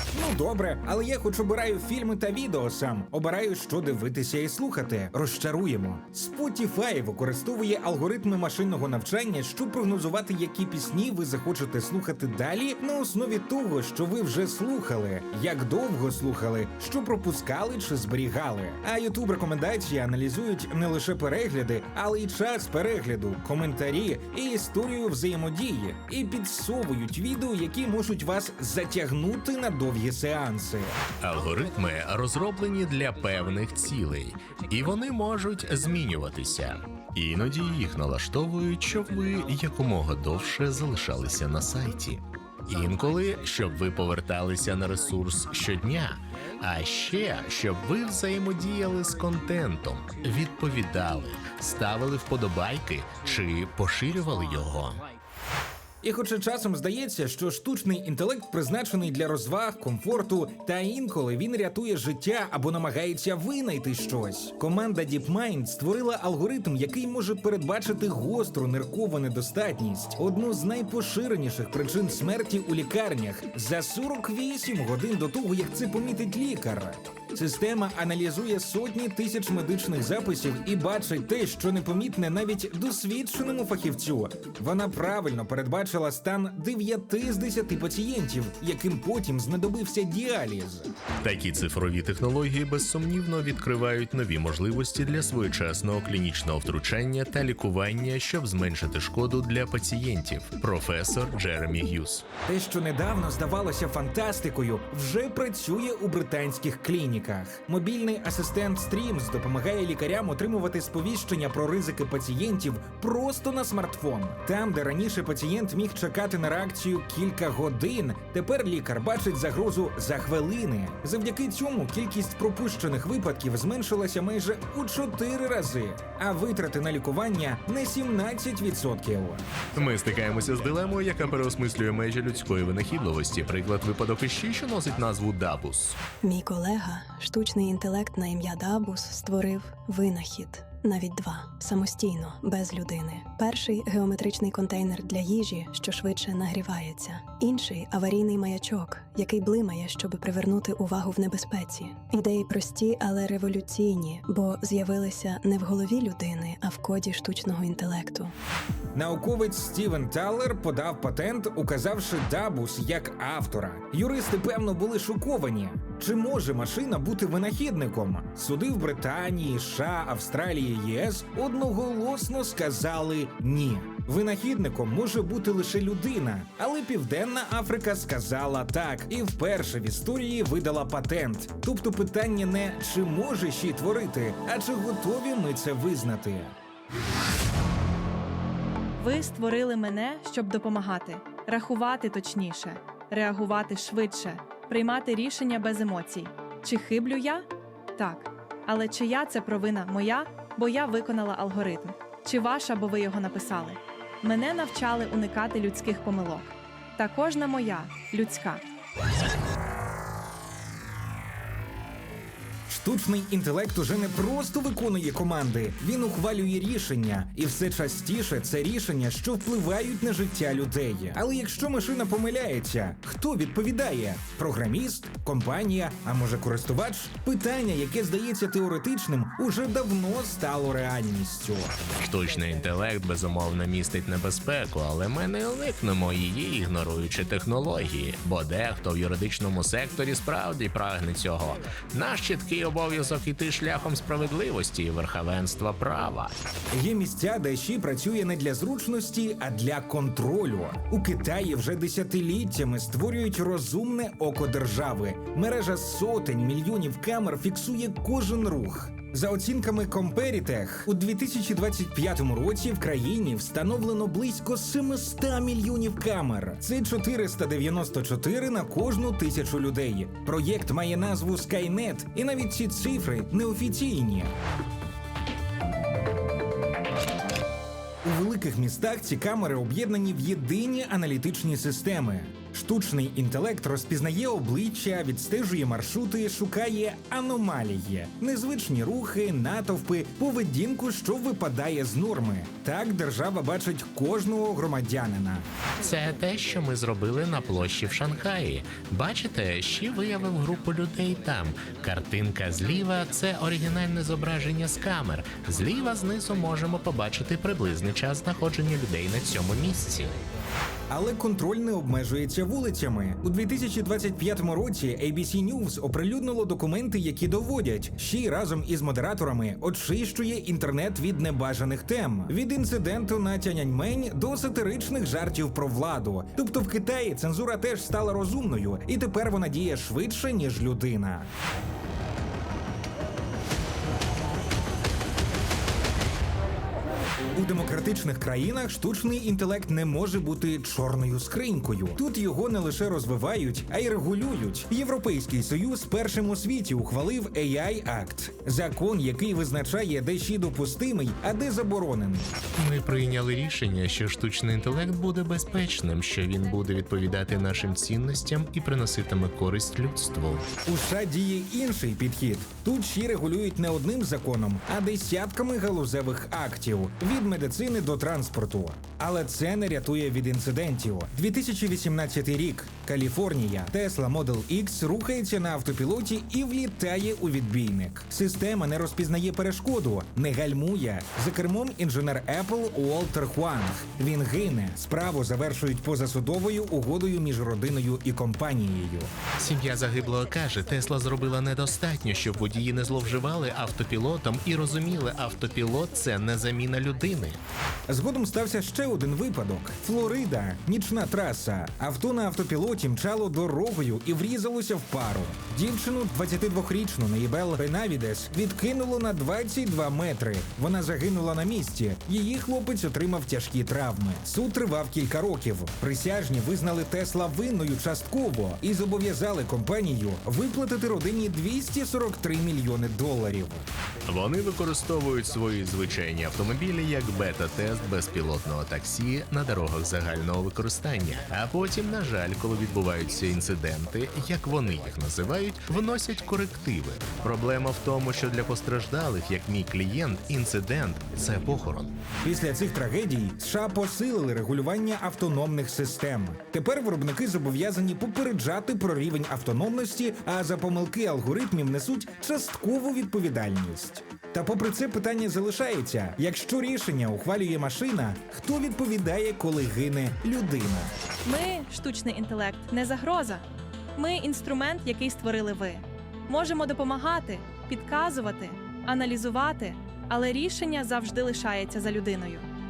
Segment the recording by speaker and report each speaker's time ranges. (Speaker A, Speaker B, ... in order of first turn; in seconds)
Speaker A: 0.1-31.0, 56.0-90.9, 102.5-129.4, 158.9-186.6, 212.7-231.7, 246.7-274.3, 278.0-295.5, 310.9-331.3, 337.3-352.3, 360.6-389.1, 397.9-423.7, 442.2-460.9
Speaker B: 31.2-55.0, 91.2-102.2, 129.8-136.0, 232.0-246.3, 295.8-310.2, 352.6-360.5, 389.4-397.4, 424.1-442.0
Speaker C: 136.2-158.3
Speaker D: 189.0-208.6, 461.2-472.5